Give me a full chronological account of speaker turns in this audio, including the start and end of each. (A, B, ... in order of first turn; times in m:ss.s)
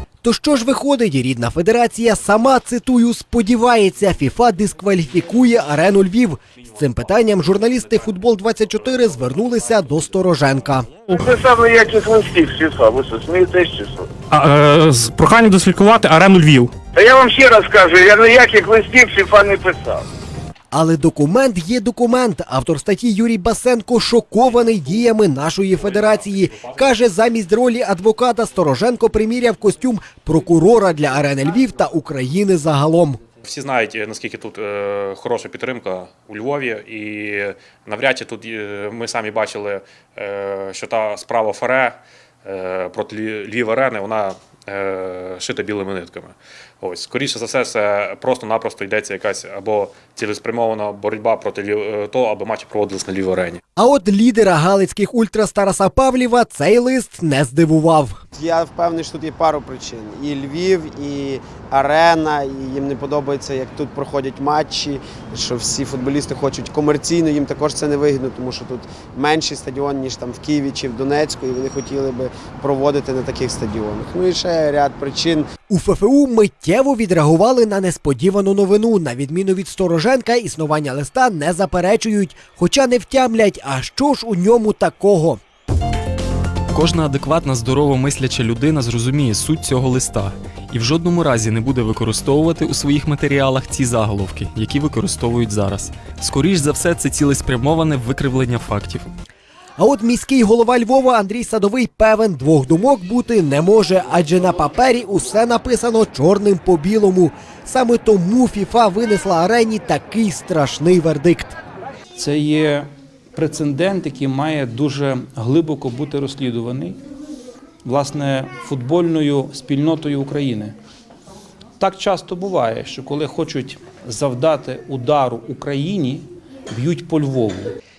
0:00.2-0:11.2 A
0:11.2-0:14.1 B
0:14.3-0:16.7 C
0:14.6-0:16.6 D
0:17.0-0:20.0 B
0:20.7-0:33.2 A
0:25.8-0:26.9 D
0:33.4-0:53.6 D
0:53.8-0:58.2 A
0:58.3-1:15.5 E
1:15.7-1:25.4 A
1:26.7-1:39.1 F
1:39.8-1:51.5 A
1:52.2-1:57.0 G
1:57.8-2:00.8 G
2:01.8-2:07.8 G